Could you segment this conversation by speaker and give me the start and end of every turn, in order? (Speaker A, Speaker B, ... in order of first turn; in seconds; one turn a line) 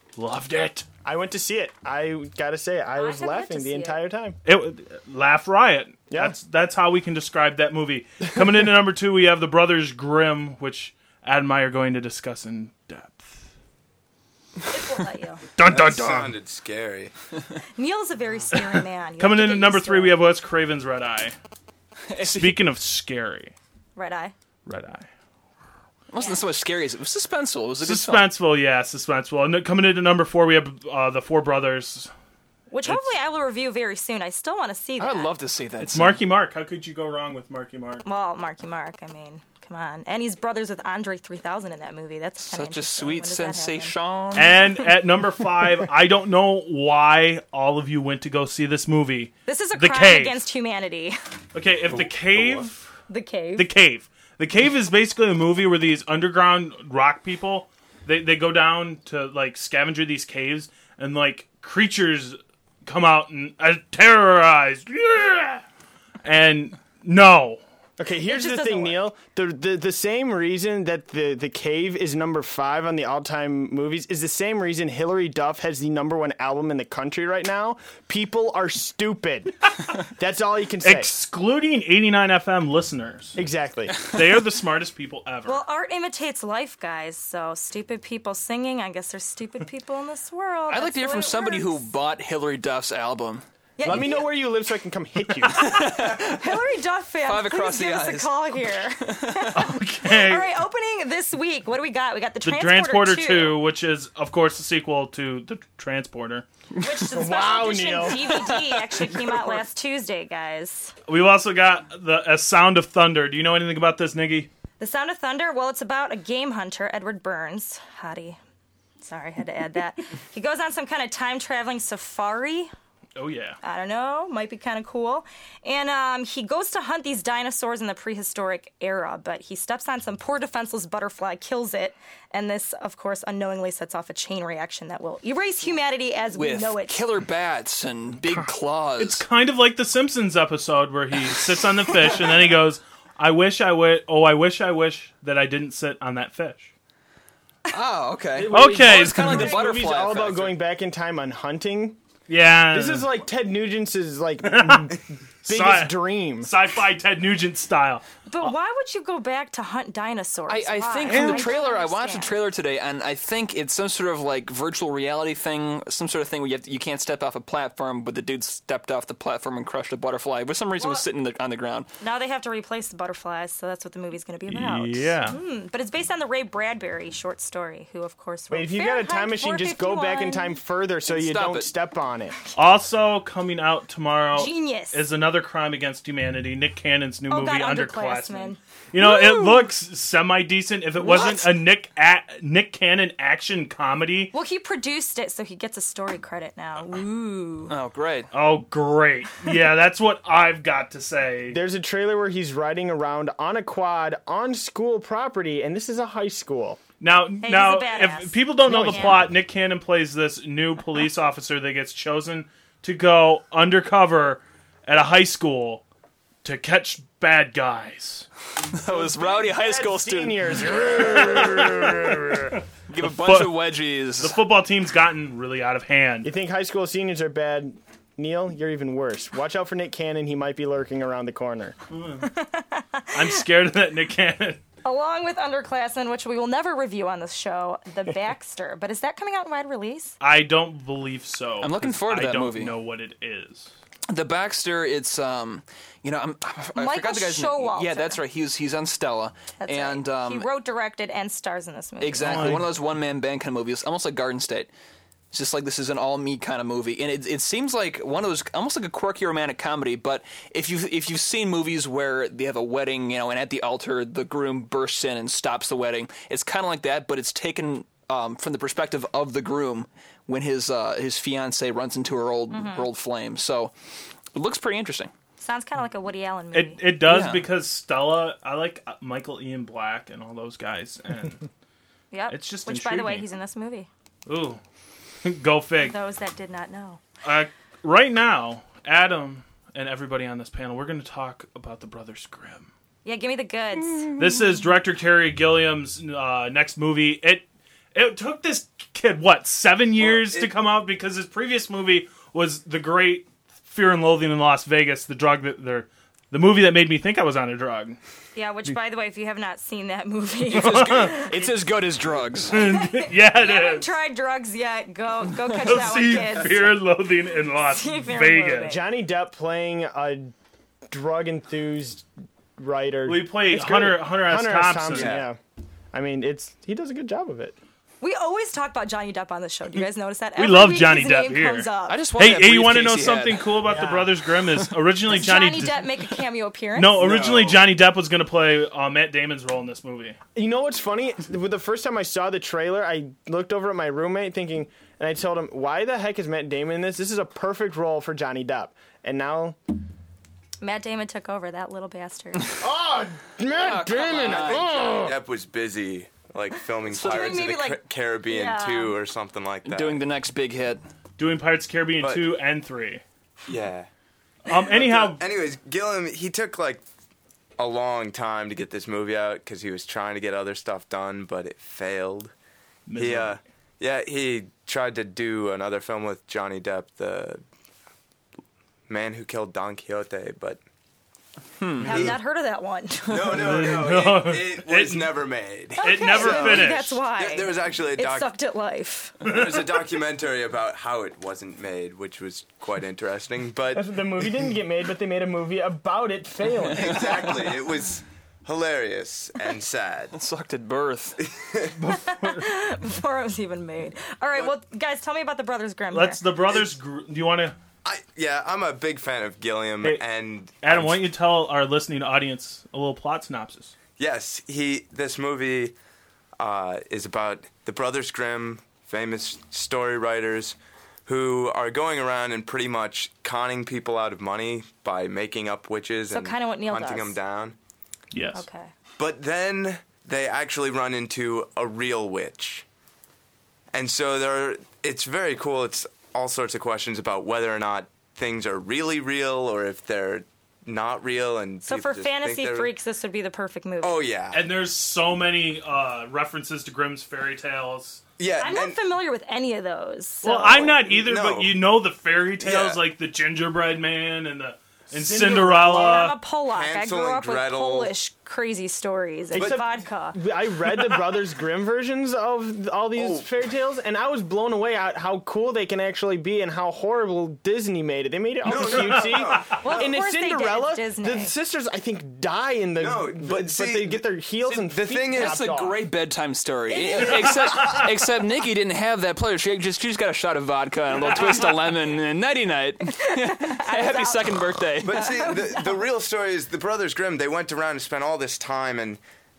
Speaker A: 0.2-0.9
Speaker B: 1.1-4.4
Speaker C: 3.0-4.0
Speaker A: 4.5-13.5
Speaker B: 6.1-6.4
Speaker C: 14.7-15.4
Speaker A: 15.6-16.4
Speaker D: 15.7-17.1
Speaker C: 17.8-20.1
Speaker A: 18.5-21.4
Speaker E: 22.1-22.6
Speaker A: 22.2-23.6
Speaker C: 24.0-24.3
Speaker A: 24.7-25.1
Speaker E: 26.1-28.3
Speaker A: 27.8-32.1
Speaker C: 32.7-35.3
Speaker E: 35.0-36.2
Speaker A: 35.8-38.0
Speaker C: 38.0-44.0
Speaker E: 42.4-44.6
Speaker A: 44.4-50.4
Speaker C: 49.5-51.2
Speaker A: 51.5-53.0
Speaker D: 52.4-52.6
Speaker C: 53.1-53.7
Speaker A: 53.6-65.6
Speaker A: 66.2-67.6
Speaker B: 68.0-81.1
Speaker C: 68.3-69.0
Speaker A: 80.8-83.4
Speaker B: 83.4-84.0
Speaker A: 84.1-85.6
Speaker C: 85.5-91.9
Speaker E: 90.7-93.4
Speaker C: 93.8-94.2
Speaker B: 93.8-95.7
Speaker E: 95.6-96.6
Speaker C: 96.2-103.6
Speaker E: 97.2-98.3
Speaker E: 99.0-99.5
Speaker A: 99.5-100.5
Speaker A: 102.4-106.5
Speaker C: 106.8-110.9
Speaker B: 107.1-108.2
Speaker E: 108.3-109.6
Speaker A: 111.1-114.5
Speaker C: 114.8-118.4
Speaker C: 119.0-122.7
Speaker A: 123.2-123.6
Speaker C: 123.6-137.1
Speaker E: 136.3-139.2
Speaker A: 138.3-146.7
Speaker E: 141.8-142.3
Speaker E: 147.7-150.6
Speaker B: 148.3-152.0
Speaker A: 148.5-149.6
Speaker A: 152.3-153.1
Speaker B: 152.7-156.5
Speaker A: 154.4-154.9
Speaker A: 155.4-158.5
Speaker C: 158.3-162.3
Speaker E: 160.5-171.9
Speaker A: 161.1-161.5
Speaker C: 170.8-171.1
Speaker C: 172.0-180.6
Speaker A: 174.5-175.4
Speaker B: 178.5-182.3
Speaker E: 181.1-181.7
Speaker A: 182.6-194.3
Speaker C: 184.3-185.0
Speaker C: 187.3-189.6
Speaker E: 191.0-191.5
Speaker C: 194.3-197.7
Speaker E: 197.7-198.3
Speaker A: 198.3-201.6
Speaker B: 201.5-206.8
Speaker A: 207.0-215.8
Speaker C: 207.4-209.2
Speaker B: 208.7-209.2
Speaker A: 216.4-218.3
Speaker E: 218.7-220.4
Speaker B: 218.9-222.4
Speaker A: 220.7-226.3
Speaker E: 222.9-224.4
Speaker B: 226.2-231.8
Speaker A: 231.9-232.3
Speaker C: 232.2-233.4
Speaker A: 233.1-234.6
Speaker C: 234.8-240.2
Speaker A: 240.2-243.7
Speaker E: 241.6-242.8
Speaker E: 244.1-250.5
Speaker C: 246.8-248.2
Speaker C: 249.6-252.5
Speaker E: 252.0-254.7
Speaker A: 252.2-252.7
Speaker E: 255.3-273.7
Speaker C: 272.5-272.9
Speaker E: 274.3-275.1
Speaker C: 275.4-276.8
Speaker A: 276.5-281.5
Speaker E: 277.1-277.5
Speaker C: 282.1-283.9
Speaker A: 282.3-283.3
Speaker A: 284.3-284.6
Speaker A: 285.2-286.0
Speaker C: 285.8-287.0
Speaker A: 287.2-292.7
Speaker C: 293.1-294.1
Speaker A: 294.2-308.0
Speaker D: 300.0-300.5
Speaker C: 308.4-311.3
Speaker E: 310.5-312.6
Speaker A: 310.5-311.1
Speaker B: 311.4-311.8
Speaker A: 312.5-313.9
Speaker C: 312.5-316.6
Speaker A: 315.5-318.8
Speaker C: 317.7-318.8
Speaker B: 318.7-320.3
Speaker B: 320.9-325.4
Speaker A: 323.1-325.2
Speaker D: 324.9-325.3
Speaker B: 325.9-327.6
Speaker C: 328.0-332.0
Speaker A: 330.4-336.0
Speaker E: 331.9-333.7
Speaker B: 333.7-334.1
Speaker C: 335.1-337.0
Speaker A: 336.8-340.2
Speaker D: 337.0-337.6
Speaker B: 340.4-349.6
Speaker C: 350.6-352.5
Speaker B: 352.6-355.2
Speaker E: 353.6-354.6
Speaker D: 354.3-360.0
Speaker E: 356.9-357.4
Speaker C: 357.0-359.0
Speaker E: 359.6-360.8
Speaker A: 361.2-363.0
Speaker D: 362.0-362.3
Speaker D: 363.5-363.9
Speaker A: 364.5-365.2
Speaker D: 364.6-366.8
Speaker D: 367.6-372.3
Speaker A: 372.9-373.4
Speaker D: 373.0-377.4
Speaker D: 378.9-380.6
Speaker E: 381.6-382.1
Speaker D: 381.8-382.2
Speaker C: 381.8-383.7
Speaker D: 383.1-388.3
Speaker A: 383.3-385.1
Speaker A: 385.8-387.0
Speaker C: 385.8-389.1
Speaker D: 389.2-393.9
Speaker A: 389.2-389.8
Speaker B: 393.7-397.2
Speaker D: 396.8-400.1
Speaker E: 400.1-401.2
Speaker D: 401.3-401.8
Speaker A: 401.8-402.5
Speaker C: 402.0-406.2
Speaker A: 405.9-407.6
Speaker D: 407.9-411.0
Speaker A: 410.6-413.7
Speaker D: 414.0-415.7
Speaker D: 416.4-427.6
Speaker C: 426.1-427.2
Speaker A: 428.1-428.4
Speaker C: 428.3-428.7
Speaker D: 429.0-432.6
Speaker D: 433.7-442.7
Speaker C: 441.6-444.0
Speaker D: 443.8-444.4
Speaker A: 444.3-448.0
Speaker D: 448.2-448.8
Speaker C: 448.4-450.6
Speaker A: 450.2-456.1
Speaker D: 450.3-451.6
Speaker D: 452.4-452.8
Speaker B: 454.9-456.1
Speaker C: 455.8-460.2
Speaker D: 456.5-457.9
Speaker B: 459.3-475.8
Speaker D: 459.4-459.6
Speaker D: 463.0-463.3
Speaker D: 468.4-469.9
Speaker A: 468.6-469.2
Speaker C: 469.6-471.3
Speaker D: 472.8-475.5
Speaker E: 475.1-485.1
Speaker C: 476.7-477.3
Speaker A: 477.4-477.9
Speaker A: 481.1-481.4
Speaker C: 483.0-485.8
Speaker D: 484.8-489.0